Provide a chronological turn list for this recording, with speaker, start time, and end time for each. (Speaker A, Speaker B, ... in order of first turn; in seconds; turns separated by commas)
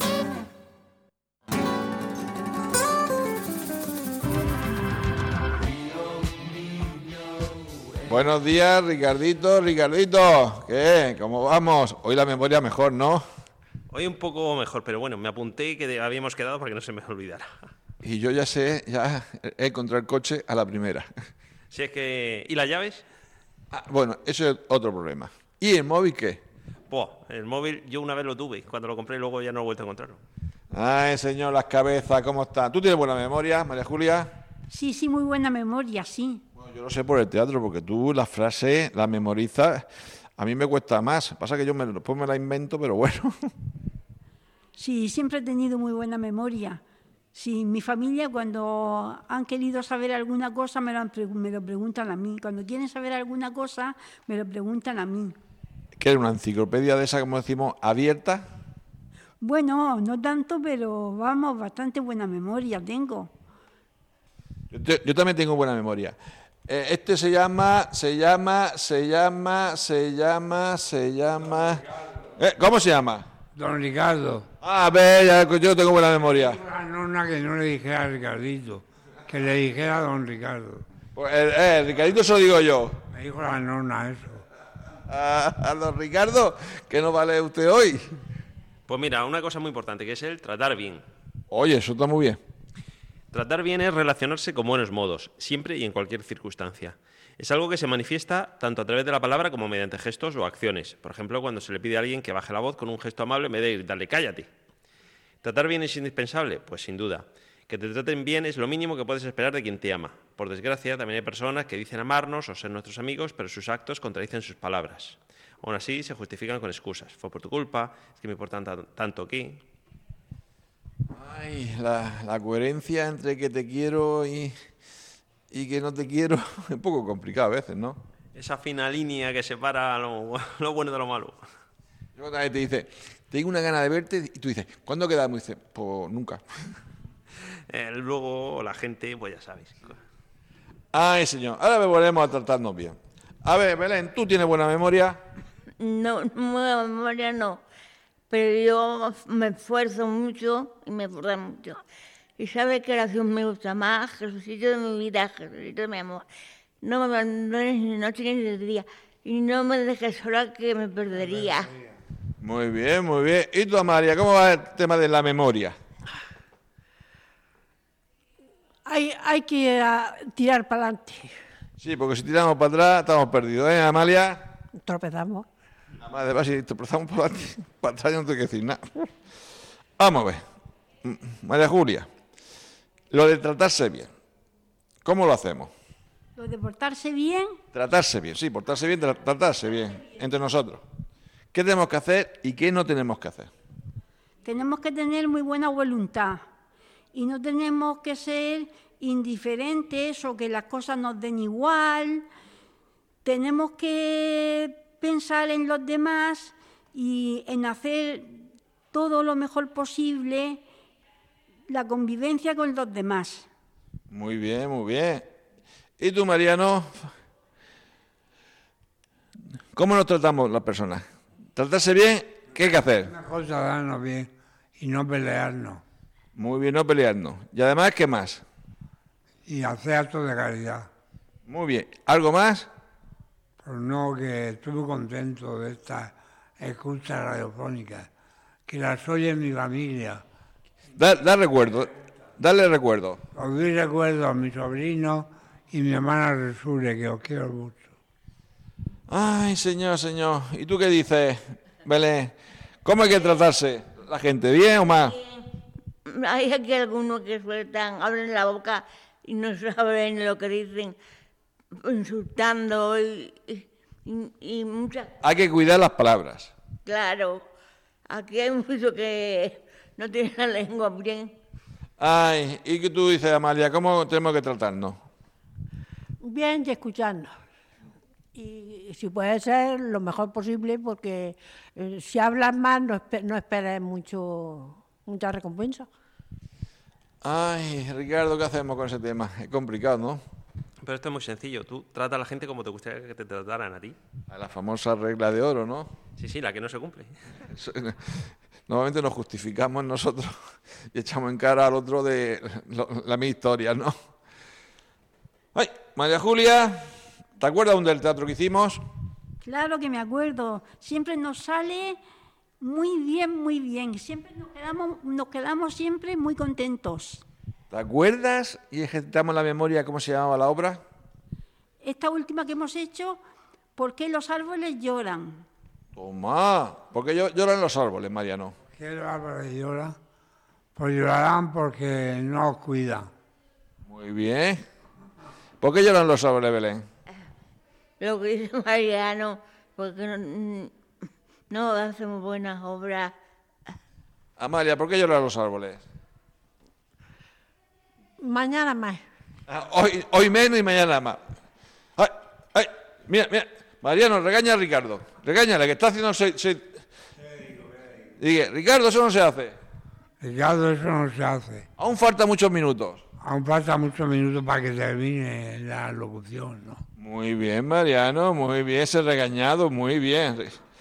Speaker A: 8.1-13.2, Speaker B: 13.9-17.5, Speaker A: 18.0-21.1, Speaker B: 21.7-23.0, Speaker A: 23.7-26.4, Speaker B: 26.9-30.2, Speaker A: 30.7-34.3, Speaker C: 34.7-36.4, Speaker A: 36.6-39.9, Speaker A: 40.4-43.3, Speaker C: 44.8-46.8, Speaker C: 47.3-55.4, Speaker A: 56.0-58.4, Speaker C: 59.4-63.3, Speaker A: 64.7-66.2, Speaker A: 66.7-73.3, Speaker D: 73.5-74.5, Speaker A: 74.6-76.6, Speaker D: 76.3-80.9, Speaker A: 81.2-83.0, Speaker D: 83.1-84.5, Speaker A: 85.1-88.0, Speaker B: 88.9-91.0, Speaker A: 91.5-92.4, Speaker B: 93.3-104.5, Speaker B: 105.4-119.6, Speaker A: 121.1-124.5, Speaker A: 125.5-128.0, Speaker B: 128.3-131.4, Speaker A: 132.2-136.4, Speaker B: 137.7-140.0, Speaker A: 140.9-145.2, Speaker E: 145.8-147.6, Speaker E: 148.3-151.8, Speaker E: 152.4-156.2, Speaker E: 156.8-161.7, Speaker D: 161.2-161.9, Speaker A: 162.4-165.8, Speaker F: 168.8-171.3, Speaker A: 171.8-174.5, Speaker F: 174.8-175.5, Speaker A: 176.0-179.1, Speaker A: 180.0-180.4, Speaker A: 181.0-182.1, Speaker A: 183.1-184.1, Speaker A: 185.0-185.7, Speaker C: 186.4-187.6, Speaker A: 187.7-190.8, Speaker A: 191.5-193.5, Speaker C: 194.4-196.4, Speaker C: 197.1-202.2, Speaker C: 203.2-210.6, Speaker C: 211.7-213.5, Speaker A: 214.1-215.3, Speaker A: 216.0-217.1, Speaker A: 219.7-221.0, Speaker A: 221.6-223.1, Speaker D: 223.0-225.8, Speaker A: 226.3-228.4, Speaker D: 229.5-230.9, Speaker A: 231.5-232.7, Speaker D: 233.6-238.1, Speaker D: 238.7-240.2, Speaker A: 240.9-243.2, Speaker D: 243.3-247.9, Speaker A: 249.1-252.3, Speaker A: 252.8-255.2, Speaker E: 255.2-255.4, Speaker E: 256.1-260.9, Speaker E: 261.8-265.1, Speaker A: 265.2-266.5, Speaker E: 266.9-267.5, Speaker E: 268.1-271.3, Speaker A: 272.0-275.0, Speaker F: 276.2-277.4, Speaker F: 278.4-285.9, Speaker A: 287.2-290.2, Speaker B: 290.8-294.0, Speaker A: 294.3-295.9, Speaker B: 296.2-297.1, Speaker A: 297.5-300.3, Speaker A: 300.9-303.9, Speaker A: 305.5-306.9, Speaker A: 307.4-308.8, Speaker C: 309.4-312.0, Speaker C: 312.6-317.2, Speaker A: 317.7-320.8, Speaker C: 321.8-323.2, Speaker C: 323.8-325.4, Speaker A: 325.9-328.6, Speaker D: 328.7-329.9, Speaker D: 330.8-333.1, Speaker A: 333.9-334.6, Speaker A: 335.6-336.9, Speaker E: 338.0-340.7, Speaker E: 341.5-343.1, Speaker A: 344.4-345.8, Speaker F: 348.2-349.0, Speaker A: 349.5-351.2, Speaker A: 352.0-356.6, Speaker D: 357.2-357.9, Speaker A: 358.2-359.6, Speaker D: 360.2-361.7, Speaker A: 361.8-363.0, Speaker D: 363.2-366.8, Speaker A: 367.0-370.6